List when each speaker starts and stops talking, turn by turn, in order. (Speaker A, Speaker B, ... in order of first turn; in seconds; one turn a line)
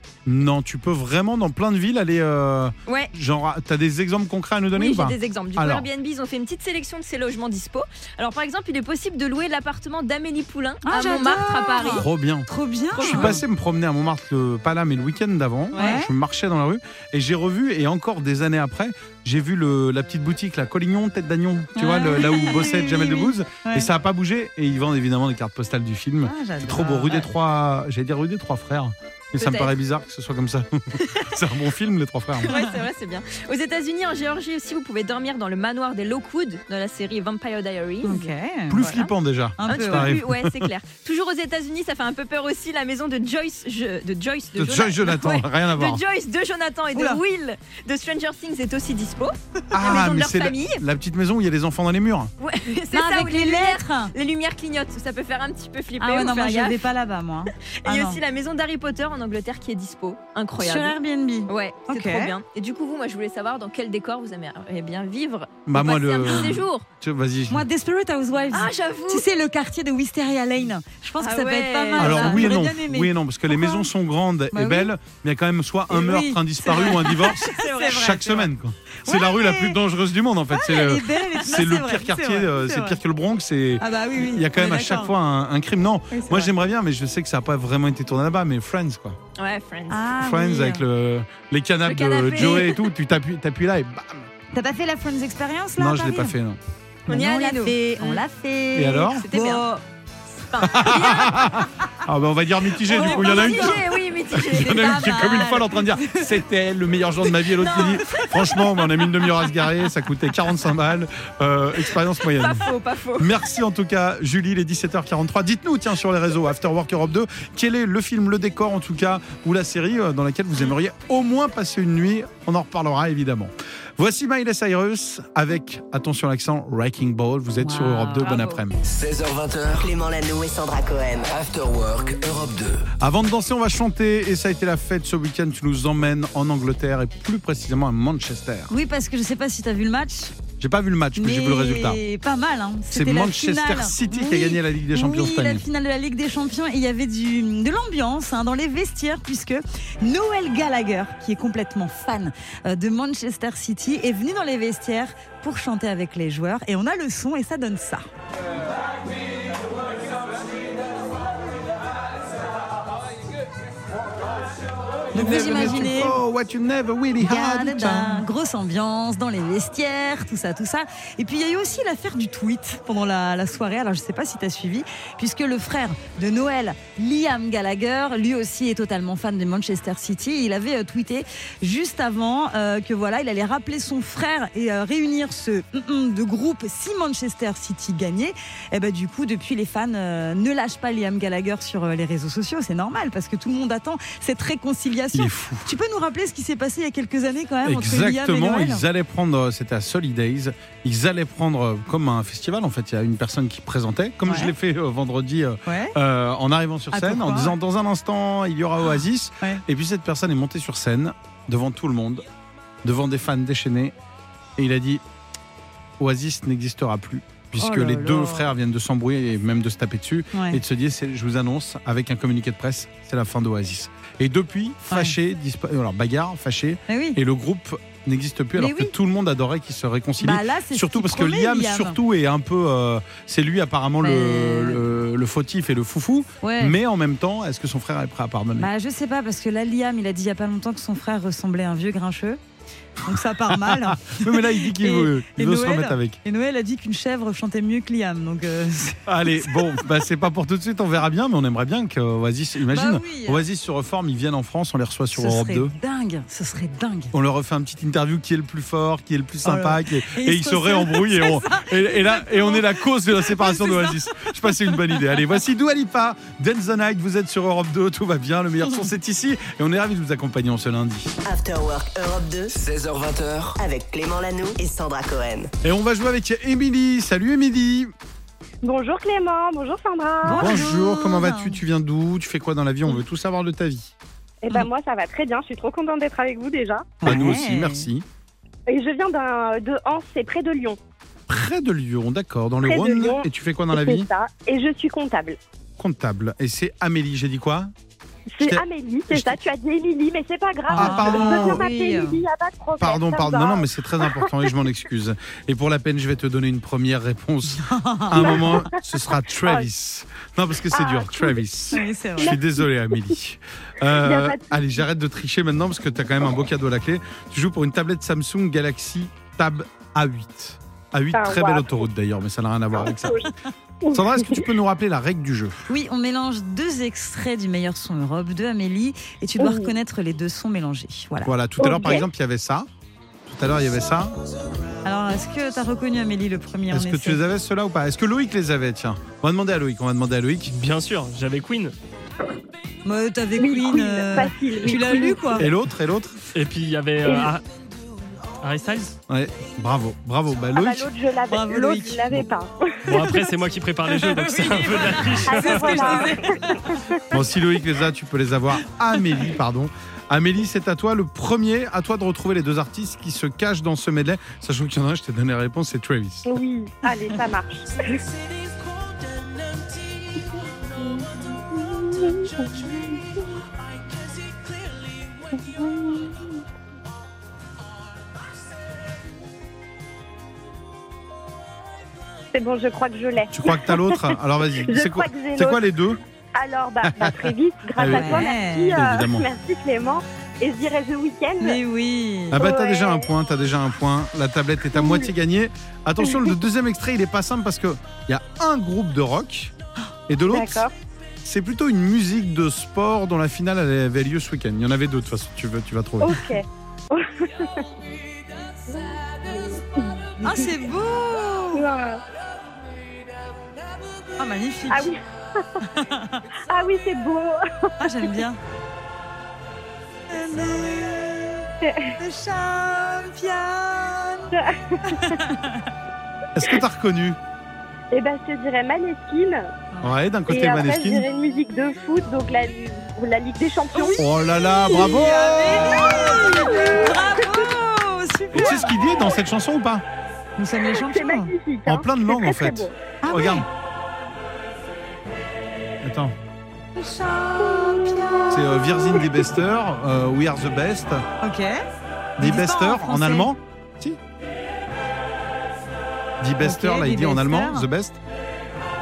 Speaker A: 0.2-5.9
Speaker B: 4.7-12.1
Speaker C: 10.8-13.4
Speaker A: 11.9-32.5
Speaker B: 12.9-13.4
Speaker C: 15.7-16.1
Speaker C: 21.7-23.9
Speaker C: 26.2-27.3
Speaker B: 29.4-29.7
Speaker B: 31.0-31.4
Speaker B: 32.4-39.1
Speaker C: 32.5-32.8
Speaker C: 38.0-38.9
Speaker A: 38.7-40.7
Speaker C: 39.6-40.2
Speaker B: 39.6-50.8
Speaker A: 44.5-46.0
Speaker C: 46.9-47.2
Speaker A: 49.7-52.3
Speaker B: 52.4-56.8
Speaker C: 52.9-54.1
Speaker C: 56.0-58.2
Speaker B: 57.8-61.0
Speaker C: 60.6-62.3
Speaker B: 61.5-66.9
Speaker A: 65.7-67.6
Speaker C: 67.5-73.8
Speaker B: 68.5-69.3
Speaker B: 71.2-72.5
Speaker A: 72.0-89.2
Speaker C: 74.5-74.9
Speaker C: 75.9-78.5
Speaker C: 79.0-79.8
Speaker C: 80.5-83.0
Speaker C: 83.8-85.1
Speaker C: 86.1-86.5
Speaker B: 89.3-90.1
Speaker C: 89.9-90.8
Speaker A: 90.2-94.3
Speaker B: 91.8-92.9
Speaker C: 94.5-96.3
Speaker A: 95.8-96.6
Speaker B: 97.1-98.2
Speaker C: 97.1-99.7
Speaker A: 98.7-99.2
Speaker B: 99.1-99.8
Speaker B: 100.5-101.6
Speaker A: 100.6-128.8
Speaker C: 102.8-103.8
Speaker B: 102.9-105.6
Speaker C: 104.6-106.3
Speaker B: 107.5-108.4
Speaker C: 108.0-108.3
Speaker B: 112.2-113.4
Speaker C: 127.6-128.3
Speaker B: 128.2-128.6
Speaker D: 128.8-129.9
Speaker E: 129.7-131.3
Speaker D: 131.3-132.8
Speaker A: 133.0-138.7
Speaker C: 138.7-140.3
Speaker A: 140.6-142.0
Speaker C: 141.2-158.1
Speaker A: 142.9-145.6
Speaker C: 165.1-166.2
Speaker A: 165.1-168.3
Speaker C: 167.2-198.8
Speaker A: 195.1-195.7
Speaker A: 197.6-212.2
Speaker C: 204.2-204.5
Speaker C: 205.7-206.0
Speaker C: 206.9-207.5
Speaker A: 212.8-213.9
Speaker A: 214.6-215.0
Speaker A: 216.0-238.7
Speaker C: 217.6-218.5
Speaker C: 220.3-220.6
Speaker C: 224.9-225.2
Speaker C: 226.9-227.2
Speaker C: 228.6-228.9
Speaker C: 230.2-232.0
Speaker C: 234.0-234.8
Speaker C: 236.4-236.8
Speaker C: 238.6-242.4
Speaker C: 243.0-249.8
Speaker A: 243.5-246.2
Speaker A: 249.1-255.7
Speaker C: 252.7-253.4
Speaker C: 255.1-257.1
Speaker A: 257.1-271.2
Speaker C: 259.4-265.0
Speaker E: 271.2-272.5
Speaker D: 272.5-273.6
Speaker E: 273.6-275.5
Speaker A: 275.6-277.9
Speaker F: 278.6-280.5
Speaker C: 280.2-281.6
Speaker A: 280.3-283.9
Speaker F: 284.4-287.0
Speaker C: 287.0-287.9
Speaker A: 287.0-288.1
Speaker F: 288.7-290.8
Speaker A: 291.3-294.1
Speaker F: 292.6-295.4
Speaker A: 295.8-297.7
Speaker F: 298.3-304.5
Speaker A: 298.4-299.4
Speaker C: 300.7-302.2
Speaker A: 300.7-301.6
Speaker A: 302.8-323.2
Speaker C: 307.5-308.6
Speaker F: 308.2-308.8
Speaker F: 310.7-311.4
Speaker C: 311.7-312.4
Speaker F: 312.2-312.6
Speaker F: 313.9-314.6
Speaker F: 321.1-321.9
Speaker F: 322.7-323.3
Speaker F: 323.8-324.5
Speaker A: 323.9-325.6
Speaker C: 325.7-331.3
Speaker F: 329.4-329.7
Speaker A: 331.2-332.7
Speaker F: 331.6-332.1
Speaker A: 333.3-334.1
Speaker C: 334.8-337.2
Speaker A: 336.7-340.5
Speaker G: 340.5-341.7
Speaker C: 342.9-345.5
Speaker F: 343.4-345.4
Speaker A: 345.4-346.2
Speaker G: 346.3-347.4
Speaker F: 347.0-347.3
Speaker G: 348.4-349.0
Speaker A: 349.1-350.9
Speaker F: 350.5-352.8
Speaker C: 351.3-352.2
Speaker G: 352.8-356.0
Speaker C: 352.9-353.2
Speaker C: 353.8-356.6
Speaker F: 355.2-357.0
Speaker A: 357.1-366.3
Speaker F: 366.2-368.0
Speaker F: 370.8-373.0
Speaker F: 375.4-376.4
Speaker F: 382.3-385.6
Speaker A: 383.3-386.0
Speaker F: 386.3-391.6
Speaker A: 386.8-389.3
Speaker C: 387.8-388.8
Speaker C: 391.4-392.4
Speaker A: 392.3-399.5
Speaker F: 392.4-393.1
Speaker F: 394.7-395.1
Speaker F: 396.0-396.4
Speaker A: 400.1-400.6
Speaker F: 400.3-400.7
Speaker A: 401.2-406.2
Speaker F: 406.0-407.7
Speaker F: 408.7-410.5
Speaker C: 410.2-411.6
Speaker F: 411.5-412.0
Speaker C: 414.2-414.9
Speaker F: 414.7-415.5
Speaker C: 415.6-416.2
Speaker F: 416.5-417.7
Speaker C: 417.8-418.4
Speaker C: 420.1-425.7
Speaker F: 421.6-421.9
Speaker F: 424.3-425.2
Speaker A: 426.3-427.2
Speaker F: 427.9-429.4
Speaker A: 429.8-431.1
Speaker F: 430.3-434.1
Speaker C: 433.7-438.8
Speaker A: 433.9-436.1
Speaker F: 435.7-437.6
Speaker A: 438.3-439.8
Speaker F: 438.7-439.2
Speaker C: 440.4-441.3
Speaker F: 440.6-442.7
Speaker A: 441.6-443.4
Speaker C: 443.0-443.4
Speaker A: 445.8-446.1
Speaker C: 446.7-449.0
Speaker F: 447.4-449.3
Speaker A: 448.3-451.0
Speaker C: 451.2-451.6
Speaker A: 452.2-454.0
Speaker C: 452.2-453.3
Speaker A: 456.2-458.0
Speaker C: 456.4-457.7